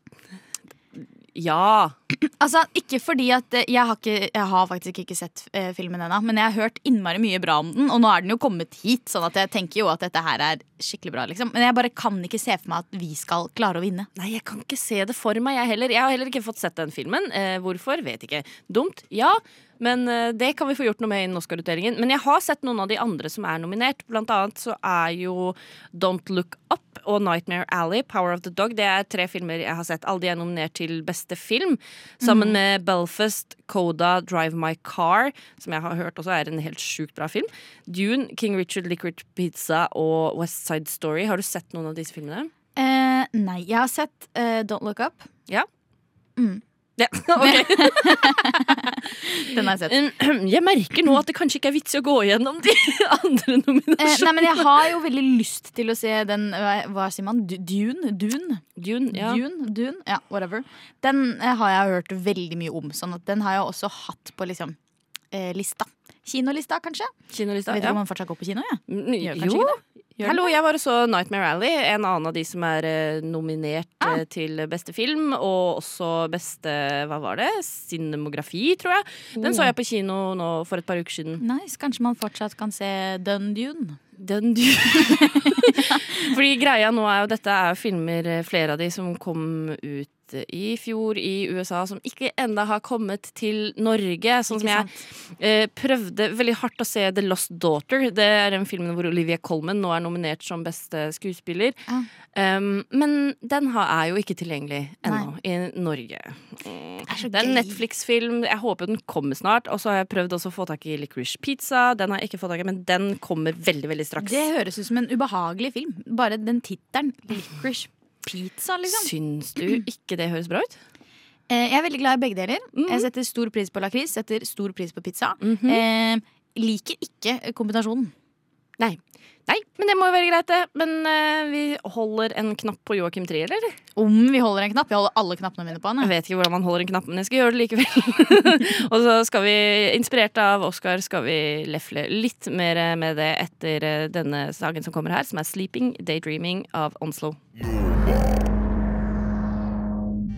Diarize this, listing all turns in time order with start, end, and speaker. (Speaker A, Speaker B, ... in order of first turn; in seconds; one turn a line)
Speaker A: 1.3-1.9
Speaker B: 2.1-14.1
Speaker A: 14.2-42.5
Speaker B: 32.2-32.6
Speaker B: 42.8-45.3
Speaker B: 46.4-46.6
Speaker A: 47.0-48.8
Speaker B: 47.4-49.9
Speaker A: 49.3-54.9
Speaker B: 54.0-64.8
Speaker A: 58.8-59.4
Speaker B: 65.3-67.1
Speaker A: 67.3-68.0
Speaker B: 67.7-70.5
Speaker A: 68.9-81.4
Speaker B: 79.4-79.7
Speaker B: 81.4-84.0
Speaker A: 84.2-101.8
Speaker B: 85.0-86.0
Speaker B: 94.5-95.0
Speaker A: 102.3-114.5
Speaker B: 107.1-107.8
Speaker B: 114.2-119.1
Speaker A: 118.8-120.8
Speaker B: 121.5-128.1
Speaker A: 122.7-123.1
Speaker A: 125.4-125.8
Speaker A: 128.8-133.8
Speaker B: 133.9-136.1
Speaker A: 136.0-147.4